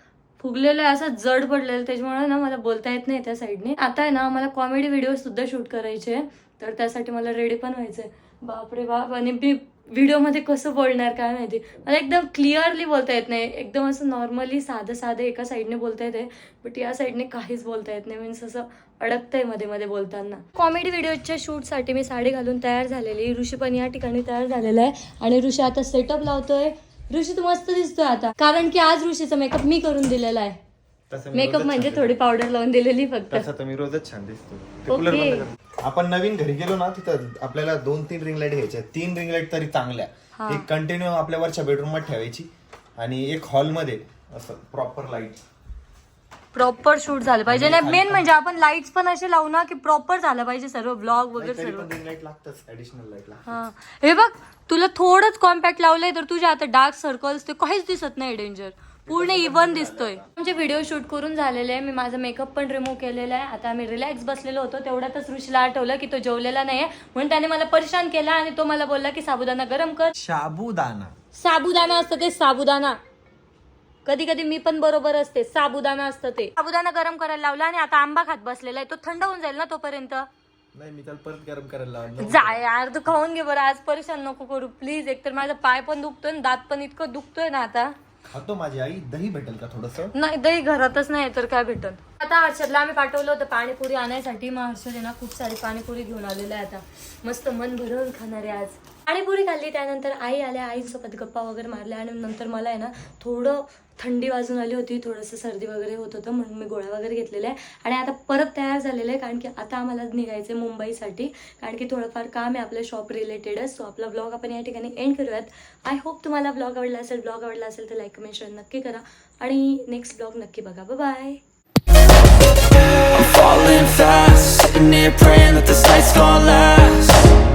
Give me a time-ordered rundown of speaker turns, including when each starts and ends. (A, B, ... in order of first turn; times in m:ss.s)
0:00.4-0:30.6 A
0:31.1-0:32.2 B
0:31.3-0:33.5 A
0:33.3-0:45.4 B
0:34.9-0:35.4 A
0:40.4-0:40.7 A
0:46.5-0:51.9 A
0:47.4-0:48.2 B
0:51.4-0:53.6 B
0:53.5-1:10.1 A
0:59.0-1:00.3 B
1:10.2-1:11.1 B
1:11.3-1:13.0 A
1:14.0-1:20.3 A
1:20.7-1:22.6 B
1:22.2-1:27.9 A
1:28.3-1:30.1 B
1:30.1-2:01.4 A
2:03.1-2:07.2 C